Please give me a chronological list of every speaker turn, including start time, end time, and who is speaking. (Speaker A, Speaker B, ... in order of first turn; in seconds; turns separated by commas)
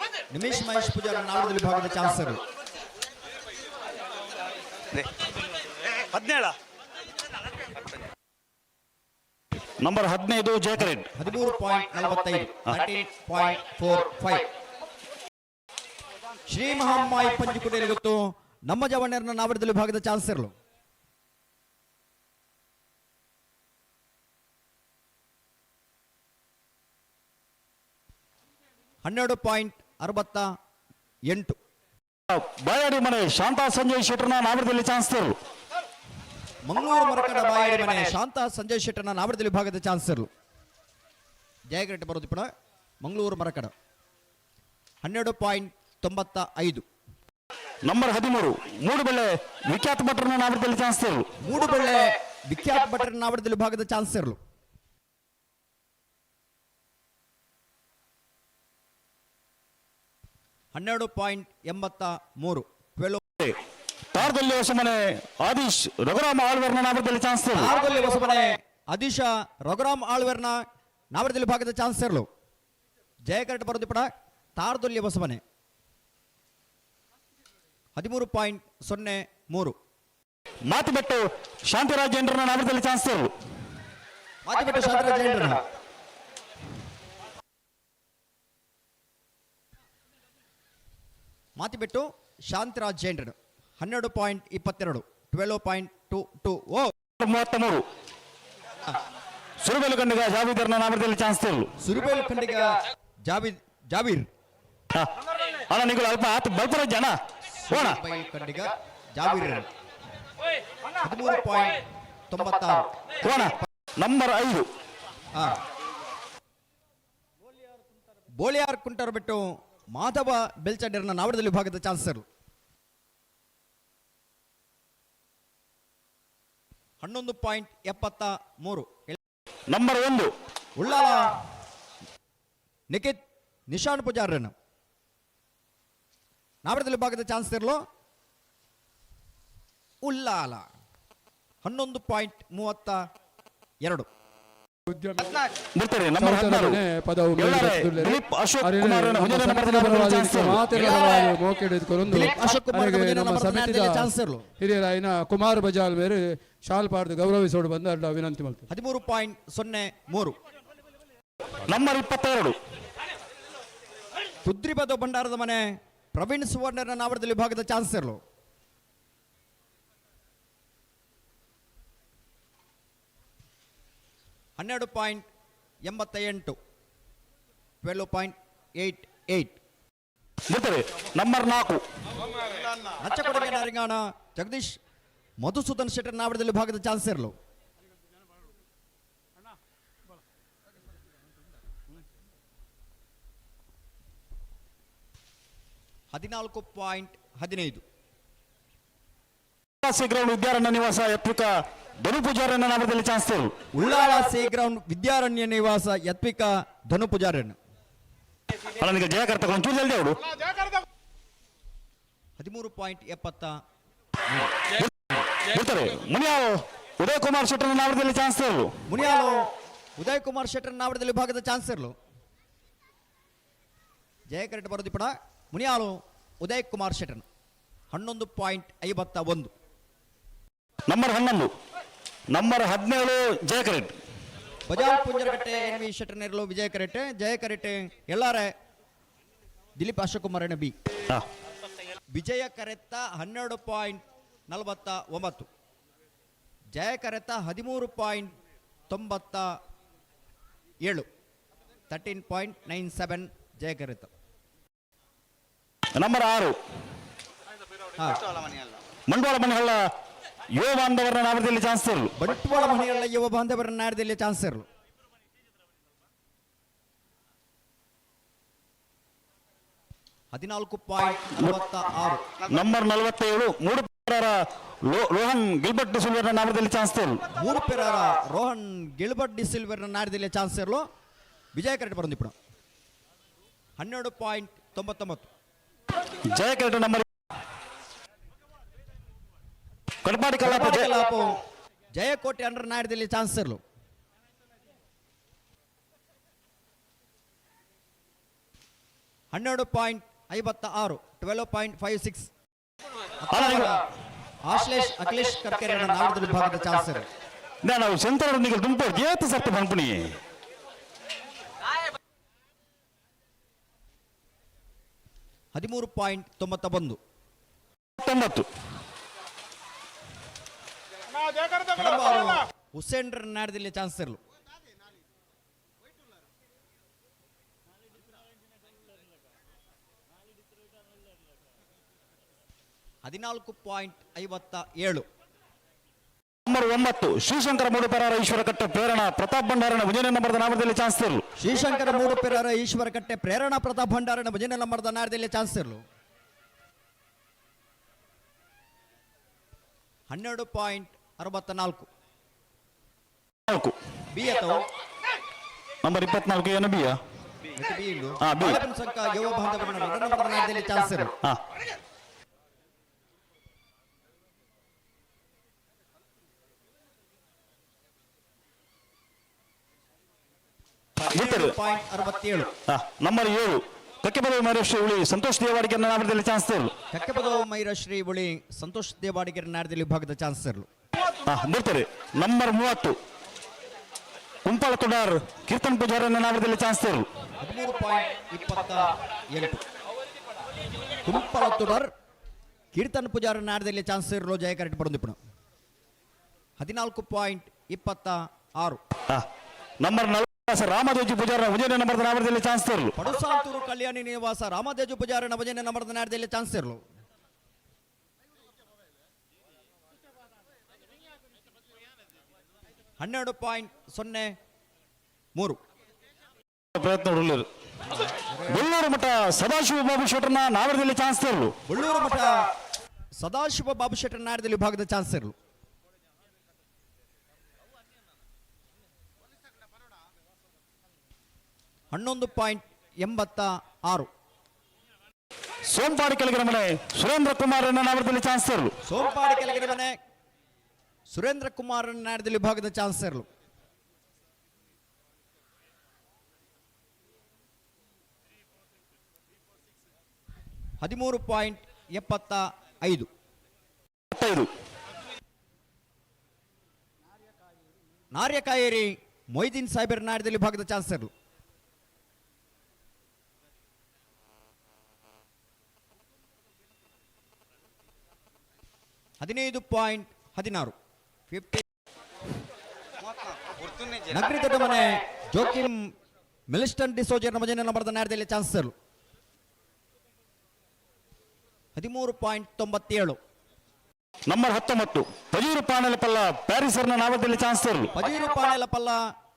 Speaker A: 0.3-2.4, Speaker B: 6.1-6.5, Speaker B: 9.8-11.1, Speaker A: 11.1-14.4, Speaker A: 16.5-20.5, Speaker A: 29.0-30.4, Speaker A: 31.3-31.6, Speaker B: 32.3-35.4, Speaker A: 36.6-40.3, Speaker A: 41.7-42.5, Speaker A: 43.0-43.7, Speaker A: 45.0-46.8, Speaker B: 47.8-51.3, Speaker A: 51.4-54.4, Speaker A: 60.7-63.2, Speaker B: 64.1-67.7, Speaker A: 67.5-70.6, Speaker A: 71.1-72.3, Speaker A: 73.3-75.4, Speaker A: 78.0-79.7, Speaker B: 80.7-83.3, Speaker A: 84.5-85.6, Speaker A: 91.5-96.9, Speaker B: 97.2-97.8, Speaker B: 99.6-101.7, Speaker A: 101.8-104.3, Speaker B: 105.7-108.0, Speaker A: 107.7-109.7, Speaker A: 111.0-112.9, Speaker B: 113.2-114.7, Speaker A: 115.3-115.6, Speaker A: 118.4-122.2, Speaker A: 127.0-129.2, Speaker B: 129.7-130.3, Speaker A: 130.8-131.3, Speaker A: 132.9-134.5, Speaker A: 136.6-137.8, Speaker A: 140.0-140.7, Speaker A: 141.6-143.0, Speaker C: 144.9-145.4, Speaker B: 145.7-146.8, Speaker C: 146.2-158.6, Speaker B: 147.4-151.1, Speaker A: 152.1-154.4, Speaker A: 158.7-160.4, Speaker B: 161.7-162.6, Speaker A: 164.4-168.2, Speaker A: 174.6-175.2, Speaker A: 175.8-176.6, Speaker A: 177.8-179.6, Speaker B: 180.5-181.8, Speaker A: 183.0-184.8, Speaker A: 185.4-187.3, Speaker A: 196.1-197.8, Speaker B: 199.8-201.5, Speaker B: 202.0-203.5, Speaker A: 203.7-207.6, Speaker B: 208.8-210.2, Speaker A: 212.4-213.5, Speaker B: 214.8-218.7, Speaker A: 218.9-221.9, Speaker A: 224.3-227.2, Speaker A: 227.9-229.5, Speaker B: 230.9-231.5, Speaker B: 232.3-233.9, Speaker A: 234.7-238.5, Speaker A: 239.8-240.7, Speaker A: 242.1-245.5, Speaker A: 246.7-248.3, Speaker A: 248.9-249.5, Speaker A: 251.9-254.1, Speaker B: 255.9-256.6, Speaker B: 259.1-259.8, Speaker B: 260.5-262.1, Speaker A: 262.2-264.6, Speaker A: 270.3-272.3, Speaker B: 272.4-277.2, Speaker A: 277.4-280.8, Speaker A: 281.5-282.3, Speaker A: 283.8-285.3, Speaker B: 286.3-287.1, Speaker B: 290.0-290.9, Speaker A: 290.4-291.4, Speaker A: 291.9-293.6, Speaker A: 299.3-302.3, Speaker A: 303.2-303.8, Speaker B: 303.3-303.7, Speaker A: 304.4-307.1, Speaker B: 307.6-310.2, Speaker A: 315.5-317.0, Speaker B: 318.0-318.4, Speaker A: 321.7-324.2, Speaker A: 333.0-335.0, Speaker B: 336.4-341.2, Speaker A: 341.4-345.8, Speaker A: 350.1-351.9, Speaker B: 353.5-353.7, Speaker A: 354.1-354.6, Speaker B: 355.8-357.0, Speaker A: 357.6-361.1, Speaker B: 358.2-358.6, Speaker A: 371.0-372.5, Speaker B: 371.1-371.5, Speaker B: 372.7-376.7, Speaker A: 376.9-380.7, Speaker B: 381.2-382.9, Speaker B: 384.4-387.1, Speaker A: 387.4-389.6, Speaker A: 391.0-391.9, Speaker A: 392.7-395.2, Speaker A: 396.6-398.8, Speaker B: 399.8-402.9, Speaker A: 402.9-406.8, Speaker A: 413.0-414.3, Speaker A: 415.3-415.6, Speaker B: 416.7-417.5, Speaker A: 418.2-418.7, Speaker B: 418.5-421.5, Speaker A: 421.7-422.4, Speaker A: 423.2-425.3, Speaker A: 431.9-434.1, Speaker B: 435.7-438.7, Speaker A: 438.8-440.0, Speaker A: 441.1-443.2, Speaker A: 450.8-453.1, Speaker B: 454.1-454.5, Speaker A: 458.1-461.1, Speaker A: 469.2-470.7, Speaker A: 471.3-471.6, Speaker A: 474.0-475.9, Speaker A: 476.5-478.7, Speaker A: 481.7-483.2, Speaker B: 484.3-487.9, Speaker A: 487.9-489.0